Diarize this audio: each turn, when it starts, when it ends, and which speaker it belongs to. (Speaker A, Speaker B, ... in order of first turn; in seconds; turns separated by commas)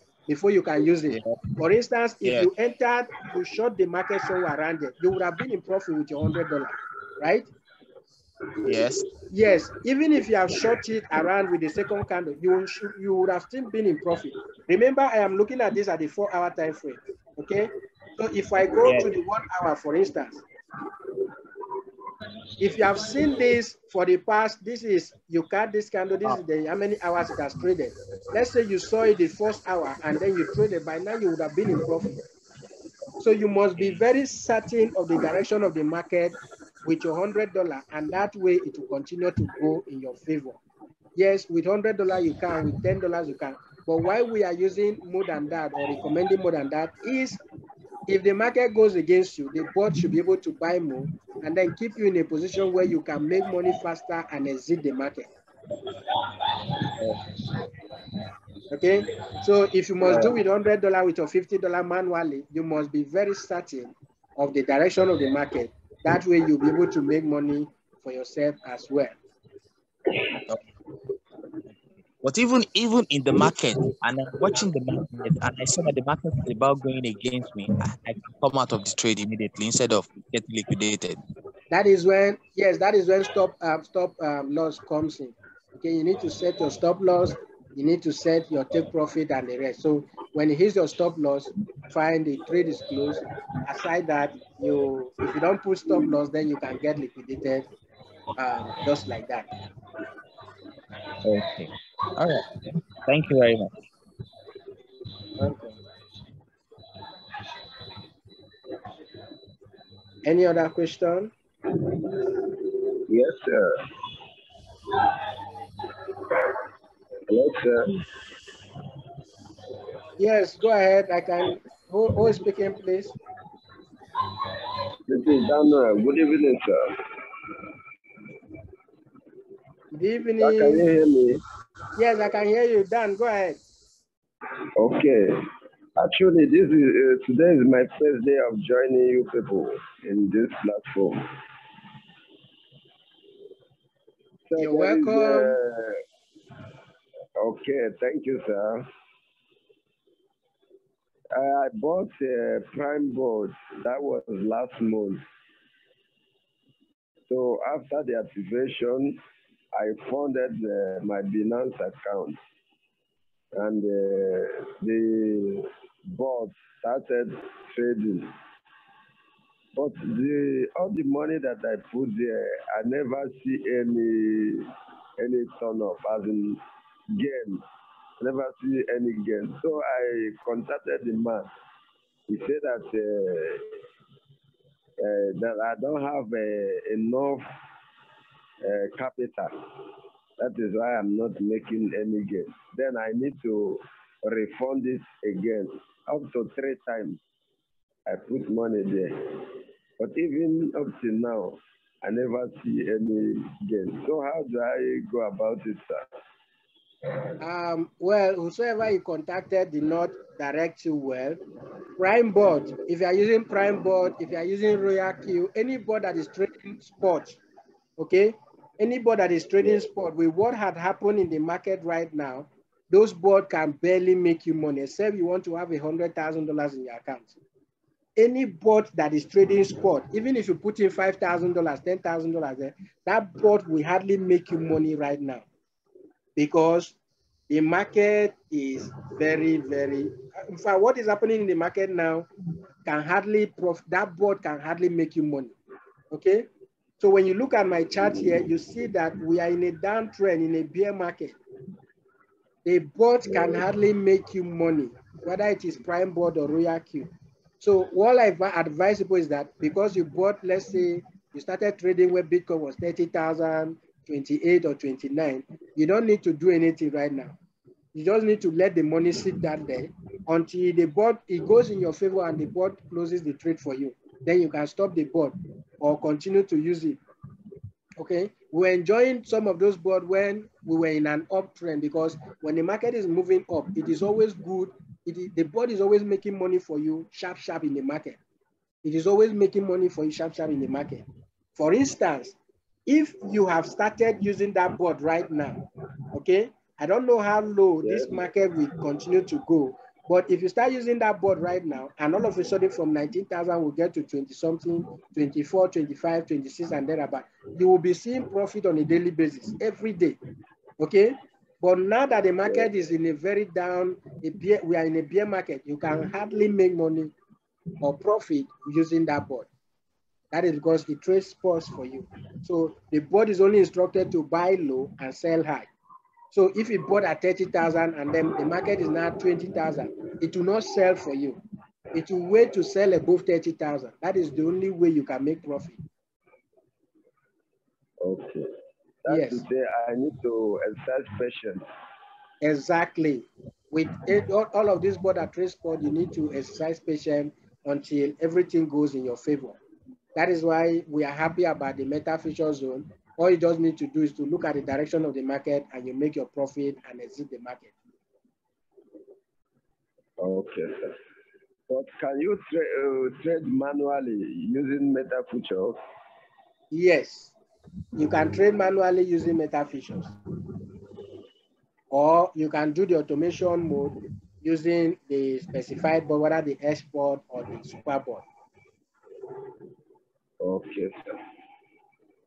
Speaker A: 0.3-7.5, Speaker B: 1.1-1.4, Speaker B: 2.2-2.5, Speaker B: 8.6-9.1, Speaker A: 9.3-20.4, Speaker B: 18.8-19.1, Speaker A: 22.6-32.2, Speaker A: 33.2-40.6, Speaker A: 41.1-47.4, Speaker A: 48.1-55.3, Speaker A: 58.7-69.2, Speaker B: 72.2-81.2, Speaker A: 81.7-97.7, Speaker A: 98.3-99.5, Speaker B: 101.2-103.7, Speaker A: 105.4-105.7, Speaker A: 110.2-111.3, Speaker C: 113.1-113.7, Speaker C: 117.3-117.9, Speaker A: 120.2-123.1, Speaker C: 125.1-127.0, Speaker A: 129.9-130.9, Speaker C: 130.4-131.4, Speaker A: 131.9-133.6, Speaker C: 134.8-135.4, Speaker C: 136.0-141.2, Speaker C: 144.5-146.0, Speaker A: 144.6-145.6, Speaker C: 147.4-148.9, Speaker C: 151.3-155.2, Speaker C: 157.3-159.2, Speaker C: 159.7-162.4, Speaker C: 163.5-168.3, Speaker C: 169.7-176.6, Speaker C: 177.1-177.6, Speaker C: 178.2-181.5, Speaker C: 182.3-183.7, Speaker C: 185.0-187.4, Speaker C: 188.6-189.5, Speaker C: 190.4-197.2, Speaker C: 198.1-199.1, Speaker C: 200.0-206.0, Speaker A: 207.4-211.4, Speaker A: 212.0-217.4, Speaker A: 218.0-227.4, Speaker A: 228.2-235.4, Speaker A: 236.3-236.9, Speaker A: 237.5-242.3, Speaker A: 242.8-245.5, Speaker A: 246.1-246.5, Speaker A: 247.0-251.3, Speaker A: 252.6-267.4, Speaker A: 267.9-277.0, Speaker A: 278.0-288.2, Speaker A: 288.8-291.0, Speaker A: 291.6-295.6, Speaker A: 296.1-310.2, Speaker C: 297.8-298.2, Speaker A: 310.8-317.1, Speaker A: 317.8-319.5, Speaker A: 320.3-325.7, Speaker A: 326.3-331.4, Speaker A: 331.9-335.8, Speaker C: 338.0-338.5, Speaker C: 339.0-341.6, Speaker A: 339.1-339.4, Speaker A: 342.4-349.6, Speaker A: 350.1-357.7, Speaker C: 360.2-361.0, Speaker C: 361.7-365.8, Speaker A: 366.7-367.3, Speaker A: 367.9-370.1, Speaker A: 371.9-378.2, Speaker C: 380.4-381.0